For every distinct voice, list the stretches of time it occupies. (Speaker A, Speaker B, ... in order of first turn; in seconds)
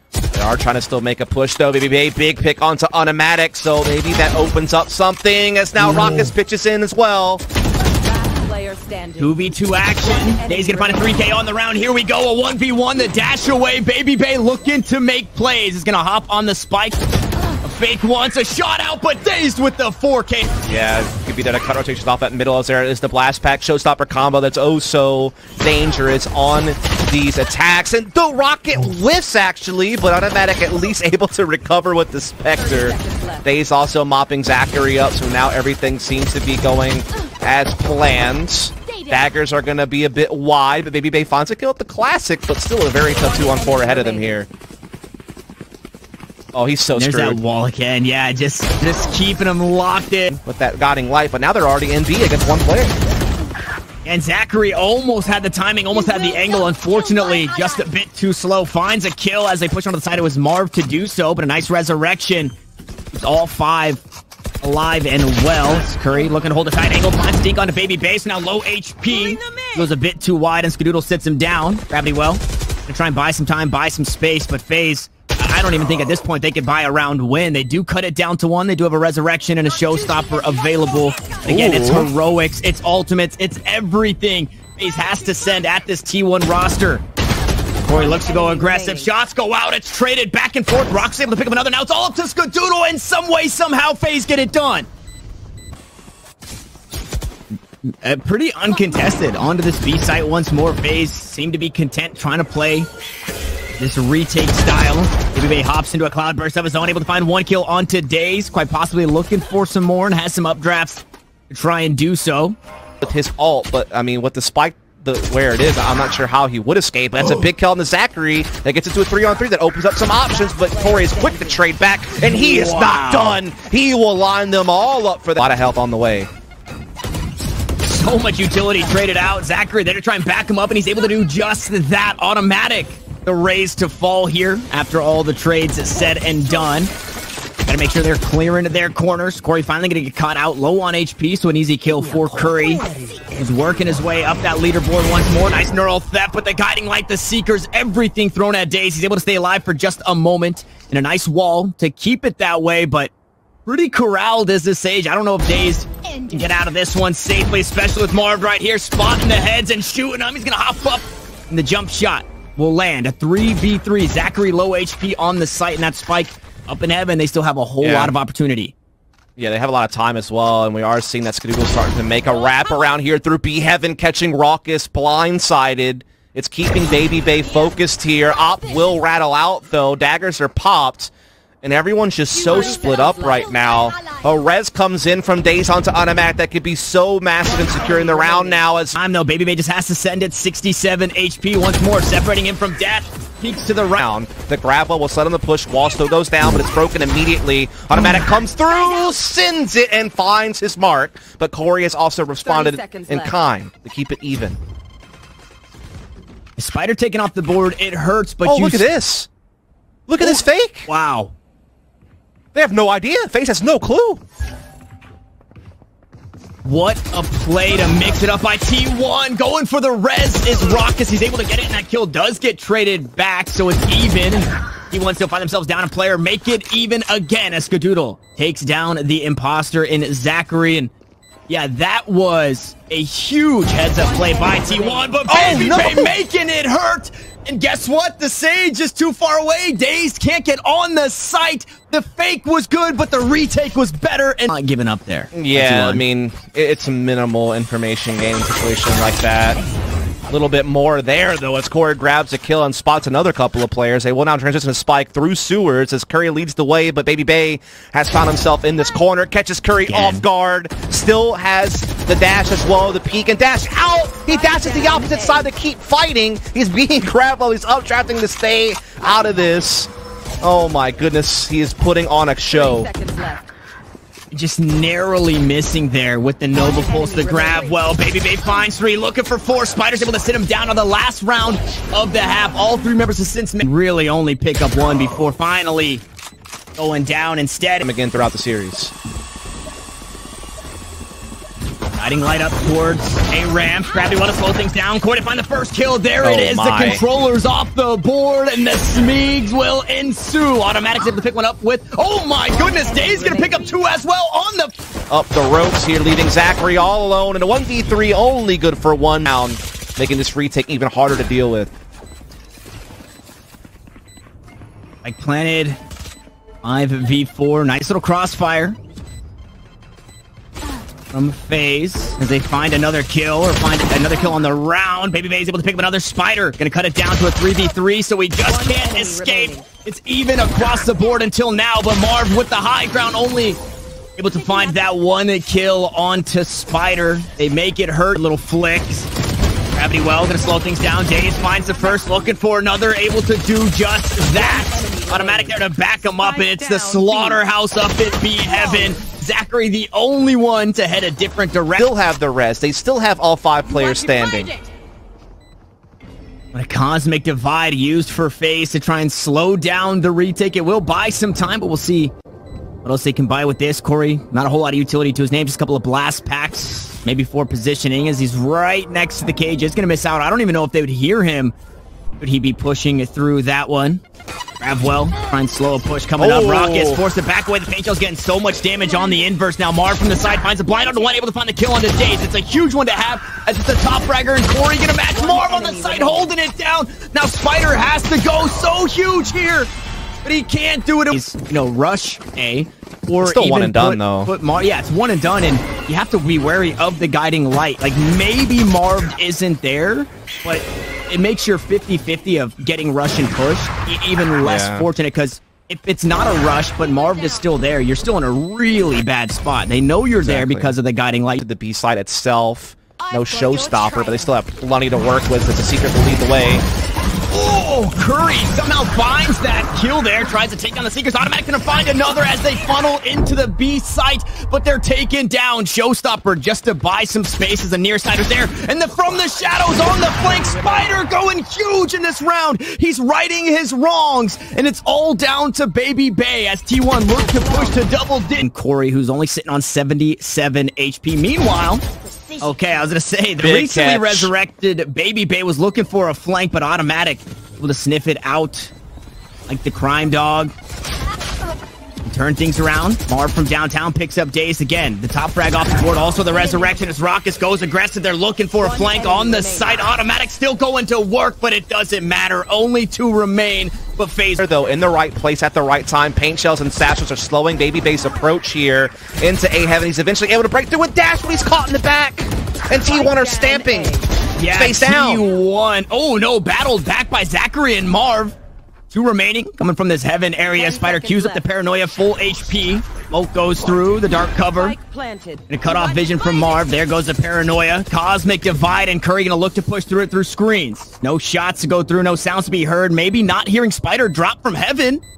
Speaker A: 0.3-7.4, 20.6-44.5, 46.5-47.4, 50.4-53.0, 81.4-82.1, 113.0-126.3, 167.8-168.1, 169.4-188.9, 194.0-204.6, 208.4-209.3, 210.1-210.9, 212.5-214.2, 235.3-236.1, 245.3-249.6, 250.3-269.9, 270.4-272.9, 287.8-288.9, 296.2-297.0, 305.1-311.7, 351.8-354.5, 376.2-377.0, 393.2-394.3, 404.4-404.9, 410.2-410.8, 411.4-416.6, 443.4-444.3, 464.4-473.9, 474.5-475.2
Speaker B: 7.9-11.3, 32.5-33.5, 43.0-44.4, 87.9-89.1, 120.3-121.7, 182.3-183.5, 187.4-188.6, 202.4-203.4, 234.0-235.6, 264.3-265.5, 272.5-273.5, 276.5-277.8, 302.5-303.7, 328.4-329.6, 344.3-347.4, 348.6-348.9, 353.9-354.6, 385.1-386.3, 407.1-407.5, 413.0-414.3, 429.2-430.9, 458.6-459.9, 472.8-474.1, 480.4-481.4, 484.5-485.5
Speaker C: 9.2-20.6, 47.0-50.4, 54.0-62.5, 63.1-64.0, 64.6-87.0, 87.8-94.9, 97.9-102.9, 103.8-112.6, 122.2-123.4, 127.8-136.9, 137.7-153.1, 153.7-168.7, 188.9-194.0, 206.6-208.9, 210.2-211.3, 216.6-230.9, 231.5-246.0, 259.8-260.2, 274.3-286.0, 286.8-287.9, 291.9-304.7, 315.0-315.8, 316.6-318.8, 321.1-333.6, 334.1-339.1, 339.7-351.9, 356.5-362.1, 362.8-371.5, 372.2-374.0, 374.6-389.7, 390.2-411.4, 417.3-441.8, 442.4-448.7, 449.5-450.5, 452.0-464.4, 474.4-478.4, 478.9-484.8, 485.5-495.0